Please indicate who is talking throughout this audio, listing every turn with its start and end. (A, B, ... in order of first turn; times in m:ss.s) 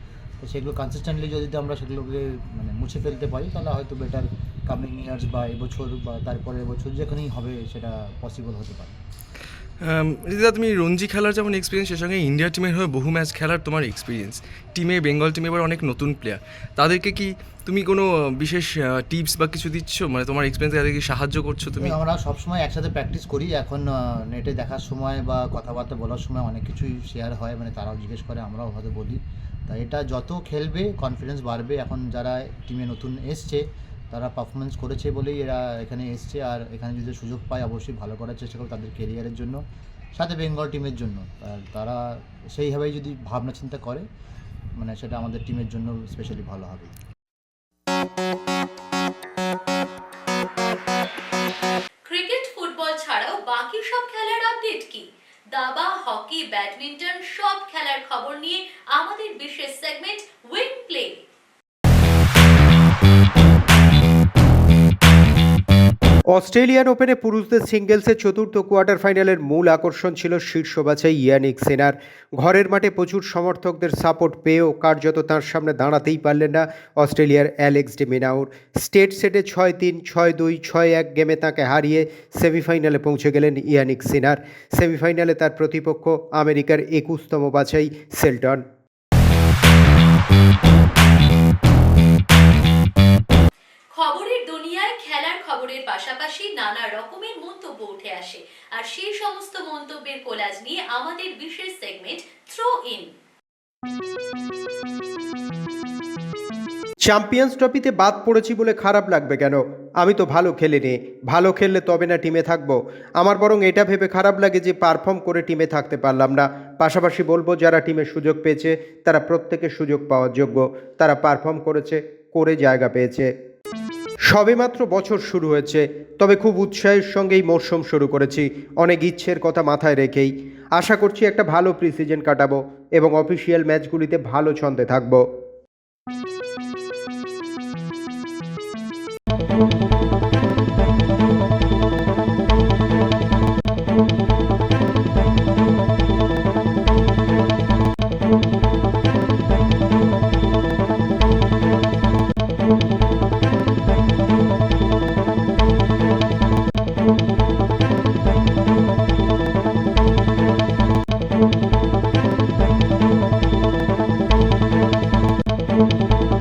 0:00.4-0:09.0 A
0:09.8-0:22.0 B
0:21.8-0:33.6 A
0:34.1-0:39.6 A
0:40.2-0:42.0 A
0:42.6-0:44.0 A
0:44.8-0:46.9 A
0:52.0-1:01.2 C
1:06.3-1:28.6 D
1:33.9-1:43.1 C
1:47.0-2:03.3 D
2:04.3-2:15.2 D